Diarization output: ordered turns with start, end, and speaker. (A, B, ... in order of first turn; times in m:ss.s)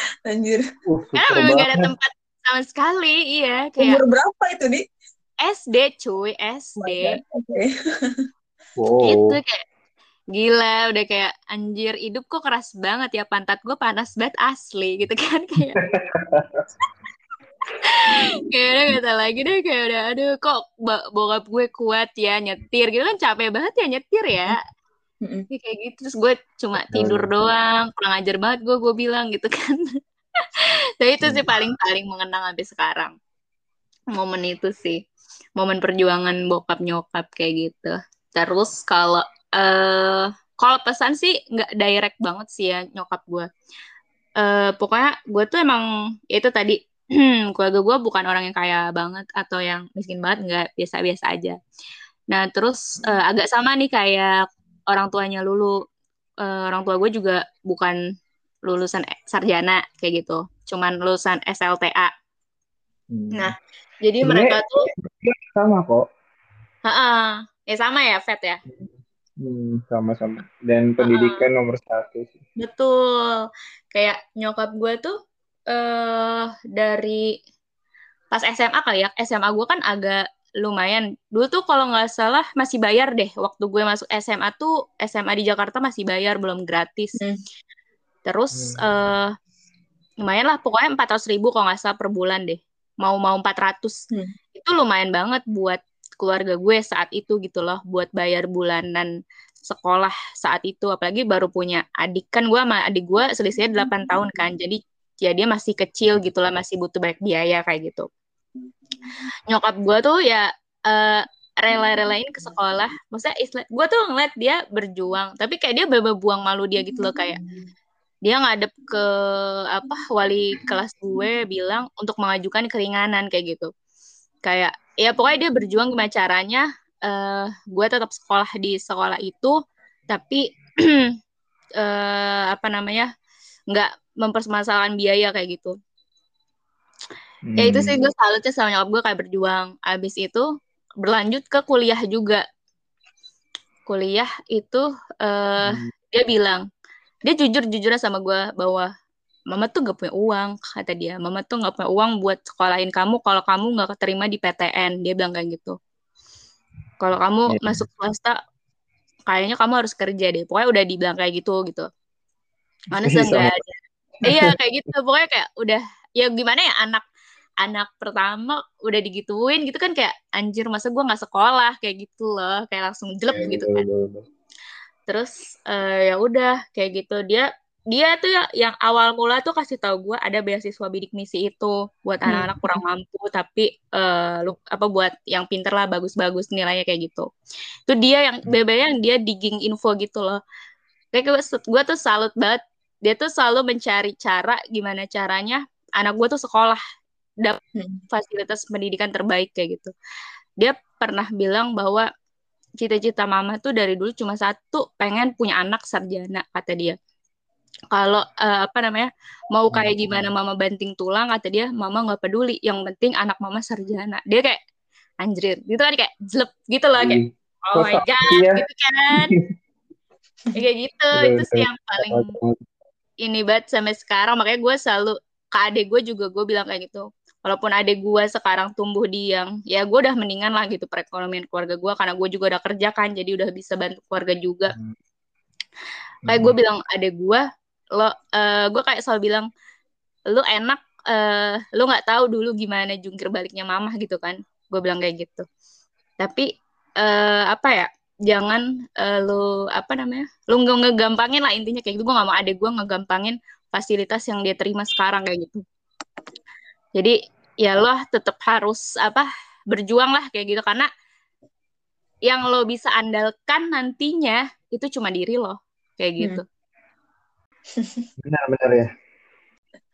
0:00.2-0:00.6 A
0:00.9-0:01.9 B
0:01.2-0:04.0 C
0:03.8-0:04.8 A
0:05.4-0:07.2 C
0:06.8-0:08.2 A
0:08.8-0:09.4 B
0:09.0-0:09.6 C
0:10.3-0:15.8 C
0:15.7-0:16.7 B
0:17.8-0:24.6 C
0:25.5-0:29.8 C
0:26.8-0:27.3 B
0:30.6-0:33.1 C
0:31.2-0:31.5 B
0:34.1-0:35.0 C
0:35.6-0:43.5 C
0:44.4-0:51.6 C
0:52.3-0:55.8 C
0:56.4-0:58.0 C
0:58.6-1:02.1 C
1:03.1-1:03.5 B
1:03.3-1:04.9 C
1:04.2-1:06.0 B
1:06.8-1:08.6 C
1:09.4-1:12.4 B
1:11.0-1:11.5 C
1:12.6-1:15.2 C
1:15.7-1:17.4 C
1:18.3-1:27.2 C
1:28.2-1:29.3 C
1:28.5-1:28.8 B
1:30.2-1:34.0 C
1:34.6-1:39.1 C
1:39.7-1:48.1 C
1:49.5-1:57.4 C
1:58.2-2:03.7 C
2:04.4-2:09.6 C
2:10.1-2:11.1 C
2:11.8-2:13.1 C
2:13.7-2:15.7 C
2:17.4-2:18.0 B
2:17.6-2:20.5 C
2:21.0-2:22.4 C
2:23.9-2:26.6 C
2:25.6-2:25.9 B
2:27.2-2:28.9 C
2:29.5-2:35.8 C
2:37.0-2:38.4 C
2:37.5-2:37.8 B
2:39.3-2:41.9 C
2:42.9-2:47.0 C
2:43.0-2:43.5 B
2:47.6-2:53.8 C
2:53.3-2:54.2 B
2:55.1-3:07.3 C
3:02.3-3:02.8 A
3:07.9-3:10.4 C
3:11.1-3:16.8 C
3:17.8-3:18.0 A
3:18.1-3:19.9 C
3:20.6-3:22.0 C
3:22.8-3:27.0 C
3:27.9-3:34.6 C
3:29.7-3:30.2 B
3:35.2-3:39.3 C
3:37.0-3:38.6 B
3:40.5-3:42.3 C
3:41.1-3:42.6 B
3:43.2-3:54.7 C
3:56.2-3:56.5 B
3:56.3-3:57.4 C
3:58.0-3:59.5 C
4:00.3-4:05.4 C
4:06.2-4:06.5 C
4:07.0-4:15.6 C
4:17.0-4:20.9 C
4:22.2-4:26.4 C
4:27.8-4:28.0 A
4:28.2-4:28.9 B